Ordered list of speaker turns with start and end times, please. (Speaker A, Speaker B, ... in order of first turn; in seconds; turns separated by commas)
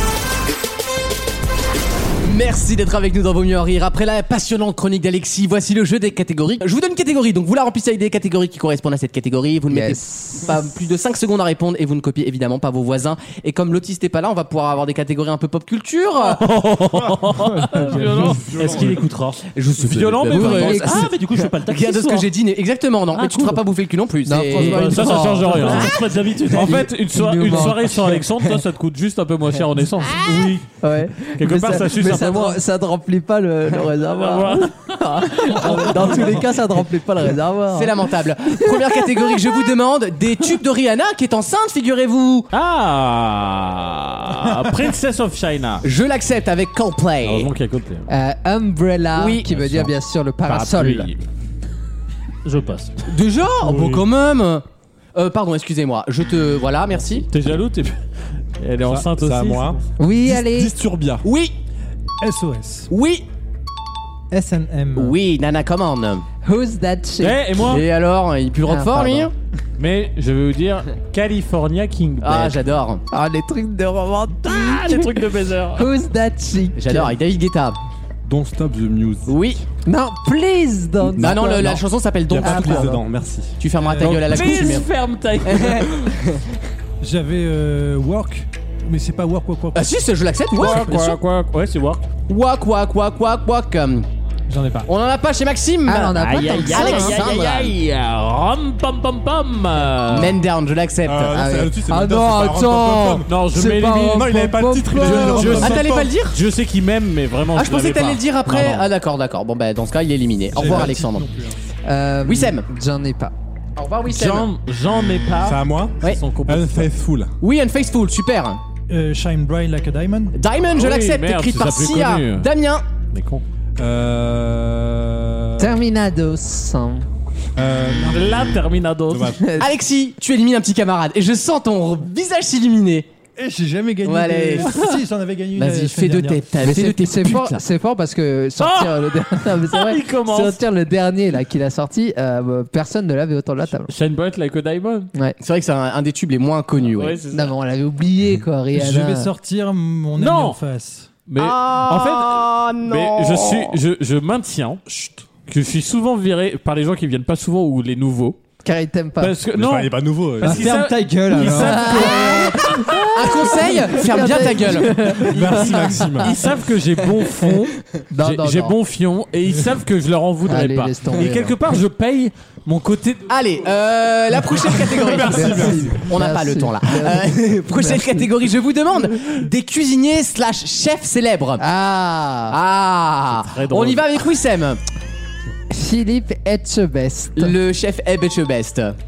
Speaker A: 2.2-16.4, Speaker B: 9.7-10.4, Speaker C: 16.2-18.7, Speaker D: 17.4-18.3, Speaker E: 17.9-22.3, Speaker F: 18.3-19.1, Speaker A: 19.5-25.2, Speaker C: 19.8-20.8, Speaker B: 20.3-21.1, Speaker B: 24.2-26.0, Speaker E: 24.6-26.9, Speaker C: 24.6-30.6, Speaker B: 27.1-28.2, Speaker B: 30.2-39.6, Speaker C: 31.3-32.6, Speaker C: 34.0-36.2, Speaker A: 37.7-42.5, Speaker C: 42.5-45.9, Speaker A: 45.8-47.5, Speaker C: 47.2-48.1, Speaker B: 48.1-51.1, Speaker A: 49.2-49.5, Speaker C: 49.6-49.9, Speaker C: 50.5-51.2, Speaker E: 52.5-53.0, Speaker A: 53.0-54.6, Speaker F: 53.7-54.0, Speaker A: 55.1-57.3, Speaker C: 57.3-58.0, Speaker C: 58.6-59.8, Speaker F: 58.9-61.2, Speaker B: 60.0-60.7, Speaker A: 61.2-61.6, Speaker G: 62.2-62.9, Speaker A: 62.9-63.3, Speaker D: 64.3-65.2, Speaker A: 65.0-66.3, Speaker B: 66.4-67.4, Speaker C: 67.2-67.9, Speaker A: 67.6-69.3, Speaker B: 68.7-69.3, Speaker C: 69.8-72.6, Speaker A: 72.2-73.0, Speaker B: 73.1-75.2, Speaker C: 74.4-75.9, Speaker B: 75.8-77.1, Speaker A: 76.8-77.8, Speaker F: 78.2-79.3, Speaker A: 79.3-79.6, Speaker B: 79.9-81.8, Speaker A: 81.2-83.0, Speaker F: 81.2-81.8, Speaker F: 82.3-83.6, Speaker B: 82.4-83.0, Speaker A: 83.6-84.9, Speaker G: 83.8-84.3, Speaker C: 84.0-86.2, Speaker A: 85.5-85.9, Speaker G: 87.0-90.0, Speaker A: 89.7-91.2, Speaker C: 90.5-92.1, Speaker A: 92.3-94.1, Speaker D: 94.5-94.9, Speaker A: 94.9-97.8, Speaker B: 95.9-97.3, Speaker C: 96.2-100.4, Speaker A: 100.1-101.3, Speaker F: 101.0-103.3, Speaker B: 101.3-105.8, Speaker C: 103.3-104.3, Speaker F: 104.0-106.2, Speaker C: 104.9-108.9, Speaker A: 105.6-106.4, Speaker A: 107.5-111.2, Speaker F: 110.5-111.6, Speaker G: 110.5-111.3, Speaker B: 111.8-113.3, Speaker A: 112.2-112.7, Speaker A: 113.8-114.5, Speaker C: 114.1-116.9, Speaker F: 115.4-117.3, Speaker A: 117.4-118.6, Speaker G: 118.9-120.4, Speaker A: 120.3-122.8, Speaker C: 120.7-122.5, Speaker C: 123.1-123.4, Speaker F: 123.8-125.8, Speaker B: 125.6-127.1, Speaker F: 127.6-129.6, Speaker C: 128.1-129.4, Speaker A: 129.6-133.1, Speaker G: 133.4-136.5, Speaker A: 134.1-134.8, Speaker A: 135.6-137.6, Speaker B: 136.6-143.9, Speaker C: 138.6-140.6, Speaker C: 143.9-145.1, Speaker A: 145.4-147.2, Speaker C: 146.8-147.5, Speaker B: 147.3-149.3, Speaker G: 148.7-151.1, Speaker C: 150.2-150.6, Speaker C: 151.3-154.8, Speaker B: 151.4-152.0, Speaker A: 151.5-151.8, Speaker A: 152.6-153.5, Speaker C: 155.5-158.4, Speaker B: 158.6-159.4, Speaker C: 159.2-163.6, Speaker F: 159.5-160.7, Speaker D: 160.4-162.6, Speaker B: 161.4-166.3, Speaker A: 163.1-165.0, Speaker F: 165.2-166.3, Speaker C: 165.4-173.3, Speaker B: 168.1-168.8, Speaker B: 170.5-171.6, Speaker A: 173.3-181.6, Speaker C: 174.8-175.6, Speaker F: 175.2-175.9, Speaker B: 175.3-178.3, Speaker B: 181.6-182.6, Speaker A: 182.5-184.8, Speaker C: 183.3-184.2, Speaker B: 185.7-187.6, Speaker A: 187.4-189.0